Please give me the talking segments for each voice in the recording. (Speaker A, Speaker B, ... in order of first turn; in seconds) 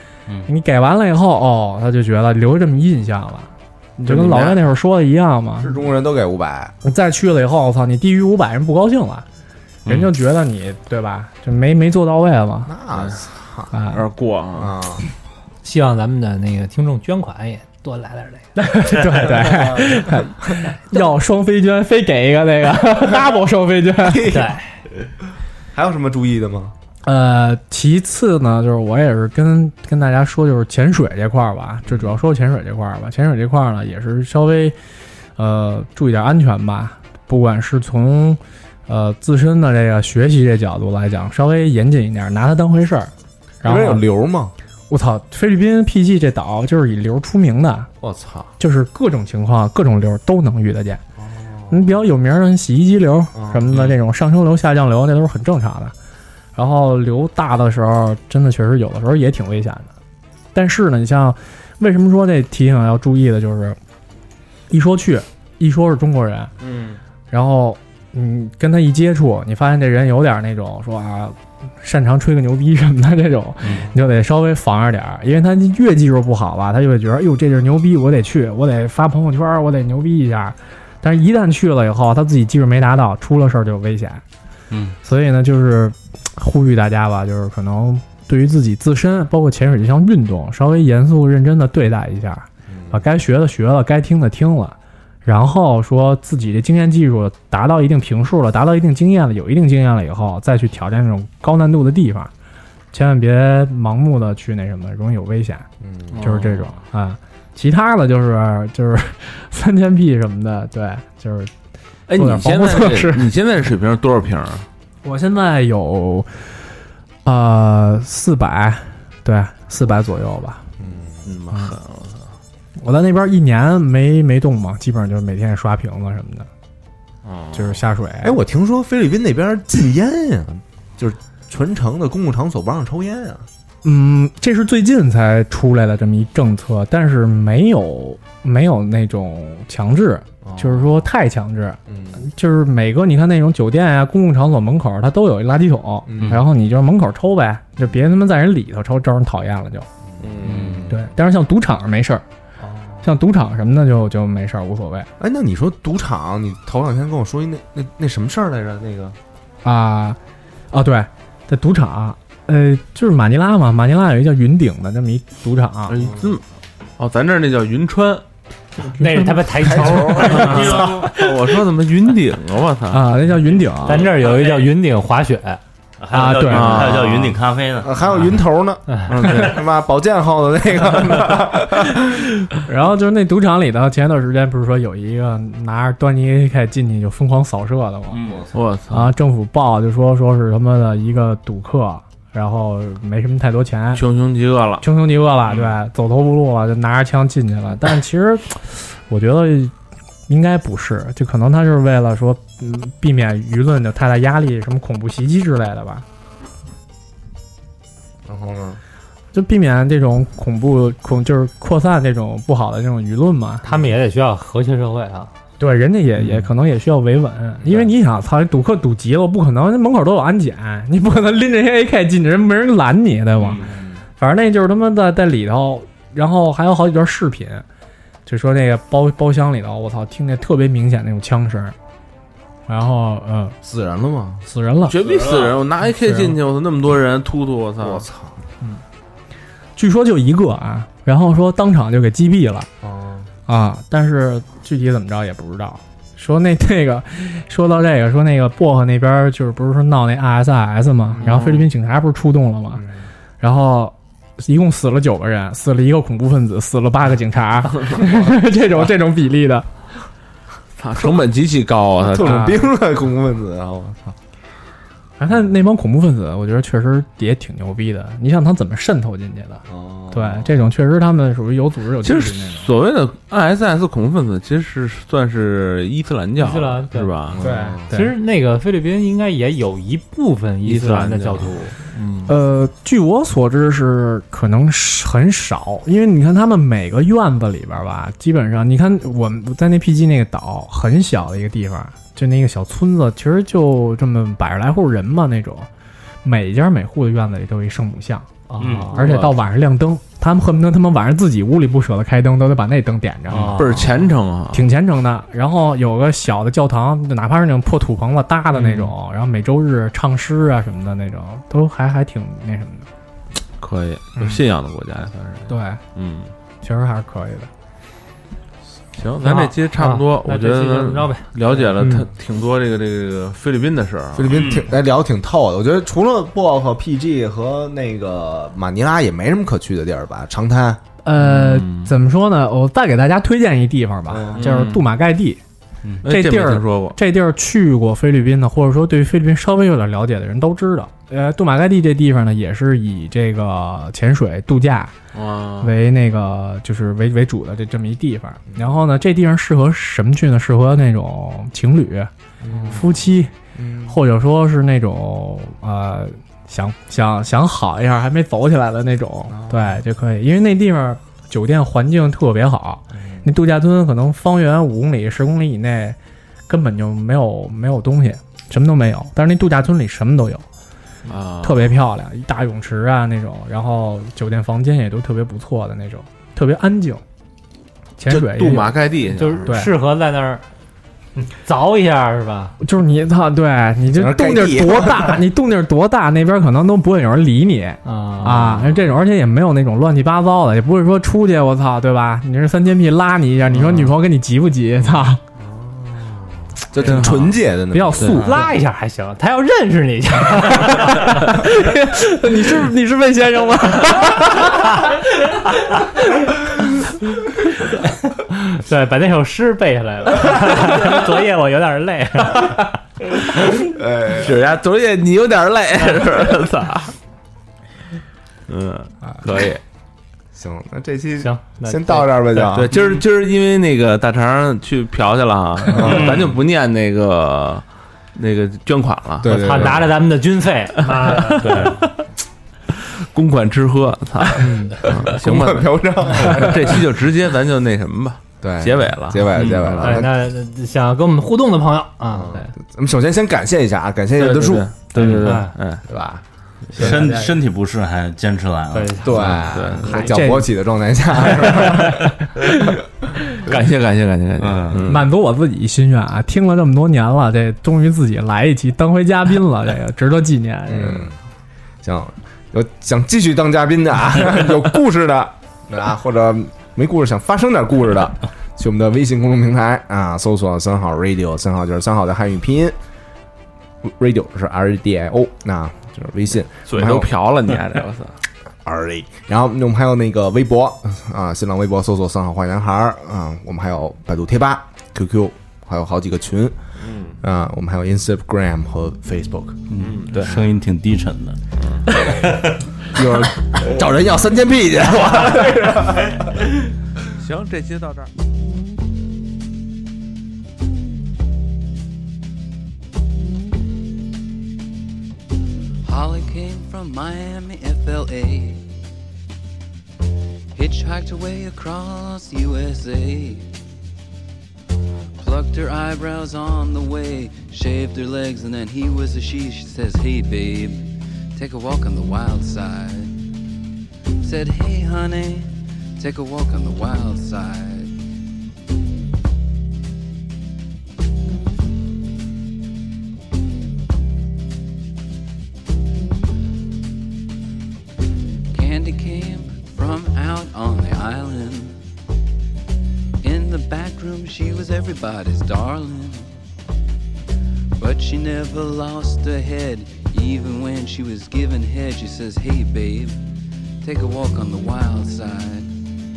Speaker A: 0.5-5.8, 6.8-9.2, 9.9-12.7, 13.7-14.0, 18.6-24.4, 27.0-34.8, 35.4-43.1, 43.6-44.0, 44.9-47.9, 48.6-51.0, 51.7-55.9, 56.6-59.9, 60.5-63.8, 64.7-66.5, 67.3-84.2, 85.0-102.3, 102.9-105.7, 106.2-111.5, 112.1-113.3, 115.0-116.5, 117.2-120.6, 122.8-126.5, 127.5-128.4, 133.8-149.9, 150.9-152.2, 153.0-155.1, 159.6-160.2, 160.7-166.0, 169.0-169.3, 169.9-171.3, 172.9-174.1, 176.1-177.0, 182.5-188.4, 188.9-194.0, 194.8-199.7, 200.3-206.1, 209.3-213.7, 215.6-227.7, 228.3-231.8, 232.7-233.6, 234.4-235.1, 236.1-236.3, 239.8-242.7, 243.5-252.8, 253.4-259.7, 265.2-272.7, 277.4-278.1, 282.3-295.7, 296.2-303.6, 304.5-312.9, 315.5-315.8, 316.6-317.5, 331.0-335.4, 336.1-344.9, 345.6-352.1, 352.6-353.3, 353.9-370.4, 371.4-377.0, 378.0-378.9, 379.5-379.7, 382.6-395.2, 397.7-398.5, 400.9-406.5, 446.8-447.1, 449.9-450.6, 451.3-451.9, 454.9-461.1
Speaker B: 4.1-4.6, 12.9-13.2, 13.8-14.8, 106.1-106.7, 112.1-114.7, 121.2-122.2, 127.2-127.8, 150.3-150.7, 165.9-166.4, 167.0-168.2, 170.4-173.3, 176.4-177.3, 179.1-179.6, 188.5-189.1, 193.9-194.8, 234.8-238.1, 260.8-262.6, 272.0-277.4, 280.6-281.6, 298.9-299.4, 303.3-304.6, 308.6-308.9, 313.6-316.3, 318.9-324.5, 331.2-331.9, 334.4-334.8, 336.0-337.0, 345.1-345.7, 371.1-371.7, 378.1-379.5, 396.8-397.4, 414.1-416.9, 418.5-419.6, 422.5-427.6, 428.1-429.7, 430.9-432.0, 432.8-440.1, 444.2-445.9, 449.5-450.0, 453.4-455.1, 476.7-478.2, 486.8-487.2, 489.8-490.4, 491.6-491.9, 497.2-498.1
Speaker C: 5.6-6.8, 12.7-13.7, 14.6-15.1, 24.0-24.6, 25.7-26.7, 31.9-32.2, 43.6-44.5, 48.0-48.5, 51.2-52.0, 53.3-53.8, 92.7-93.1, 105.8-106.3, 120.8-121.2, 128.2-133.5, 140.4-140.9, 141.9-142.3, 146.1-146.4, 150.1-151.1, 152.6-153.1, 155.2-159.2, 166.0-166.3, 169.7-170.5, 177.8-182.2, 208.3-208.8, 223.6-224.0, 233.6-234.4, 237.8-238.4, 242.8-243.3, 251.1-251.6, 252.8-253.0, 262.0-264.2, 269.7-270.5, 277.3-277.9, 324.1-330.8, 334.1-334.6, 352.4-354.0, 359.3-359.8, 362.9-363.3, 383.9-385.2, 388.4-388.8, 395.4-398.3, 413.6-414.3, 420.3-422.8, 425.7-426.2, 429.2-429.9, 434.9-436.9, 438.4-440.1, 442.1-444.7, 445.9-446.2, 446.8-447.1, 449.0-452.1, 460.7-461.1, 461.8-472.8, 473.8-477.1, 478.6-486.6, 487.2-489.6, 492.9-496.2
Speaker D: 9.9-10.1, 84.7-85.0, 146.2-146.4, 150.4-150.9, 170.3-171.1, 173.9-174.6, 176.0-178.0, 188.1-188.5, 298.6-298.9, 324.3-324.7, 425.8-426.3, 446.7-449.4, 454.4-454.9, 489.7-491.4, 492.1-492.5
Speaker E: 15.6-18.5, 24.3-24.8, 169.0-170.8, 173.9-175.6, 213.7-215.3, 276.4-277.2, 277.9-282.3, 298.5-298.9, 319.2-322.1, 379.1-380.4, 381.4-382.6, 387.9-388.5, 398.1-401.3, 407.7-412.8, 421.2-422.5, 429.2-431.9, 434.4-435.0, 439.8-442.5, 445.0-445.6, 446.8-447.3, 448.7-450.1
Speaker F: 505.8-508.7, 510.5-513.5, 515.2-523.1, 524.2-527.9, 538.5-541.8, 543.2-546.3, 547.8-553.2, 553.8-555.7